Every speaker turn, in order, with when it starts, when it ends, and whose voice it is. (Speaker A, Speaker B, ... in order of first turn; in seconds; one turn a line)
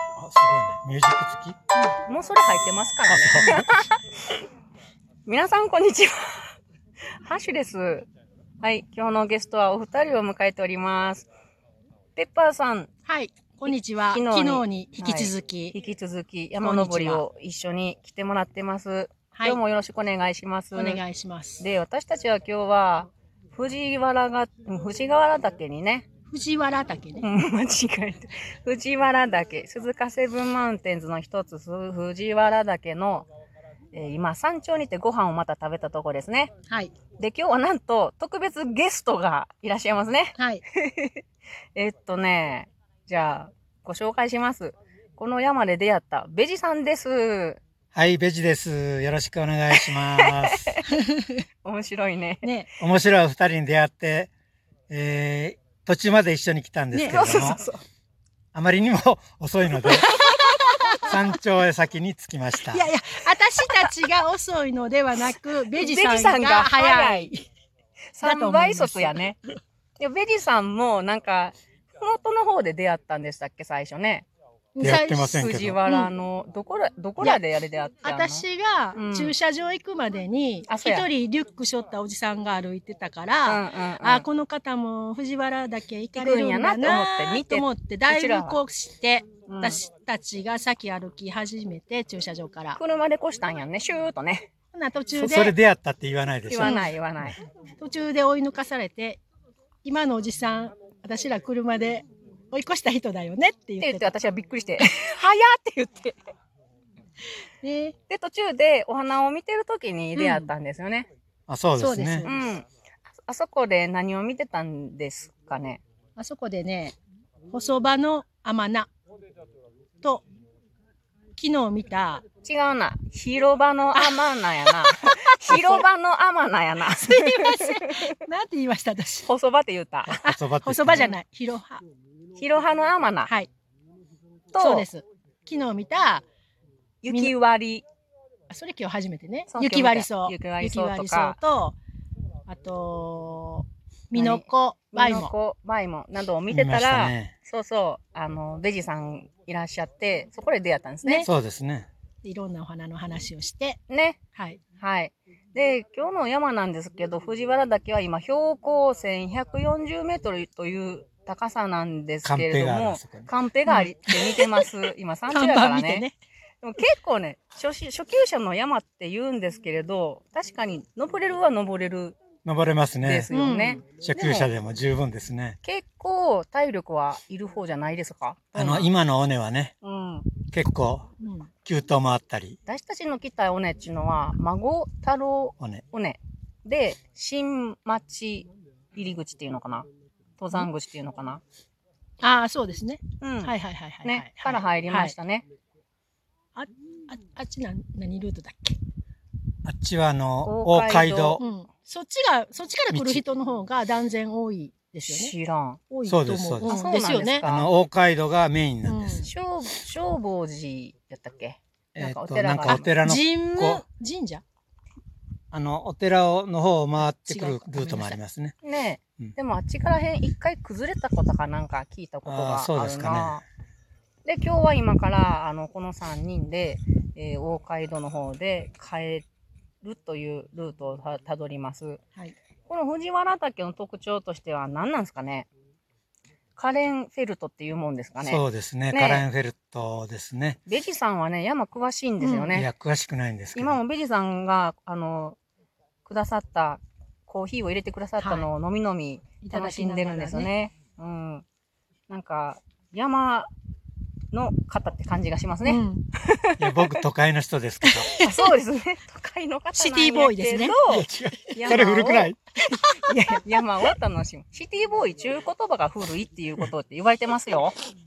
Speaker A: 0.2-1.6
Speaker B: 2.1-3.8
Speaker A: 3.1-3.7
Speaker B: 5.3-6.4
Speaker B: 7.2-8.1
Speaker B: 8.6-11.3
Speaker B: 12.2-12.9
Speaker C: 13.1-15.8
Speaker B: 13.7-21.0
Speaker C: 16.6-17.2
Speaker C: 19.3-19.6
Speaker C: 20.7-21.6
Speaker B: 21.6-26.1
Speaker C: 26.3-27.3
Speaker B: 27.2-33.3
Speaker B: 33.9-36.5
Speaker B: 37.2-41.2
Speaker C: 40.4-40.6
Speaker B: 41.8-47.6
Speaker A: 47.9-50.8
Speaker B: 49.8-50.9
Speaker C: 50.9-51.4
Speaker B: 51.6-52.5
Speaker C: 52.4-52.7
Speaker A: 52.8-54.3
Speaker A: 54.9-57.6
Speaker C: 56.9-57.2
Speaker B: 57.0-57.8
Speaker A: 58.5-60.1
Speaker B: 59.9-61.0
Speaker C: 60.2-61.1
Speaker A: 61.0-62.9
Speaker C: 62.7-67.5
Speaker B: 65.8-67.3
Speaker B: 68.2-69.4
Speaker C: 68.2-69.2
Speaker B: 70.0-74.3
Speaker C: 74.8-76.1
Speaker A: 74.8-75.8
Speaker B: 75.2-78.4
Speaker C: 78.0-92.8
Speaker B: 79.0-79.4
Speaker B: 80.7-81.1
Speaker B: 83.5-84.3
Speaker B: 86.2-88.6
Speaker B: 89.5-89.8
Speaker B: 92.8-94.5
Speaker C: 94.7-95.5
Speaker A: 95.2-96.8
Speaker B: 96.5-97.4
Speaker C: 96.6-96.9
Speaker C: 97.8-99.2
Speaker C: 99.8-104.1
Speaker B: 103.8-106.2
Speaker C: 107.6-108.0
Speaker B: 108.1-111.1
Speaker C: 110.2-110.5
Speaker A: 111.5-112.3
Speaker C: 111.8-112.5
Speaker B: 112.3-112.7
Speaker B: 113.2-115.8
Speaker C: 116.2-117.0
Speaker C: 117.5-118.9
Speaker C: 121.4-122.2
Speaker B: 122.4-128.0
Speaker C: 123.9-125.8
Speaker C: 126.9-129.3
Speaker B: 129.3-130.2
Speaker A: 130.1-131.1
Speaker C: 130.2-131.8
Speaker B: 130.9-131.2
Speaker B: 132.4-133.3
Speaker B: 134.5-134.9
Speaker C: 134.6-136.2
Speaker B: 137.0-137.9
Speaker C: 137.1-137.3
Speaker C: 138.5-141.8
Speaker B: 139.5-141.4
Speaker C: 142.5-145.3
Speaker B: 144.1-151.3
Speaker A: 146.5-147.3
Speaker A: 151.2-151.9
Speaker C: 152.2-153.8
Speaker B: 153.9-154.2
Speaker C: 154.3-154.6
Speaker B: 154.8-166.1
Speaker A: 162.2-163.3
Speaker C: 163.7-164.7
Speaker C: 165.3-166.2
Speaker B: 166.6-172.2
Speaker A: 172.4-173.3
Speaker B: 173.0-174.5
Speaker C: 173.3-173.8
Speaker A: 174.0-175.6
Speaker B: 175.6-178.6
Speaker C: 178.5-178.9
Speaker A: 178.5-179.7
Speaker B: 179.8-180.3
Speaker A: 180.5-181.1
Speaker C: 181.2-181.5
Speaker A: 181.7-182.6
Speaker B: 182.7-189.9
Speaker B: 190.4-191.4
Speaker C: 192.2-195.2
Speaker B: 193.2-195.4
Speaker C: 196.6-198.8
Speaker A: 199.7-201.4
Speaker B: 200.4-201.4
Speaker C: 201.4-205.3
Speaker A: 202.9-203.2
Speaker B: 205.1-205.8
Speaker C: 205.9-207.4
Speaker A: 206.1-206.8
Speaker B: 206.7-207.7
Speaker A: 207.4-209.2
Speaker C: 208.8-209.3
Speaker B: 209.2-212.9
Speaker A: 211.9-213.8
Speaker C: 212.7-214.4
Speaker A: 215.5-218.6
Speaker C: 217.0-218.2
Speaker B: 218.6-223.4
Speaker A: 222.2-223.4
Speaker B: 224.2-229.2
Speaker B: 229.8-232.0
Speaker B: 232.7-235.5
Speaker B: 236.6-239.3
Speaker A: 238.2-240.6
Speaker B: 240.7-242.7
Speaker C: 242.2-242.6
Speaker A: 242.5-243.8
Speaker B: 243.6-245.4
Speaker B: 246.1-251.4
Speaker C: 248.2-248.5
Speaker C: 249.4-250.5
Speaker B: 252.1-253.5
Speaker B: 254.3-257.0
Speaker C: 255.7-256.0
Speaker A: 256.6-258.1
Speaker C: 257.8-258.5
Speaker B: 258.2-262.4
Speaker C: 259.8-260.8
Speaker A: 260.9-262.4
Speaker C: 262.9-263.6
Speaker B: 263.0-267.8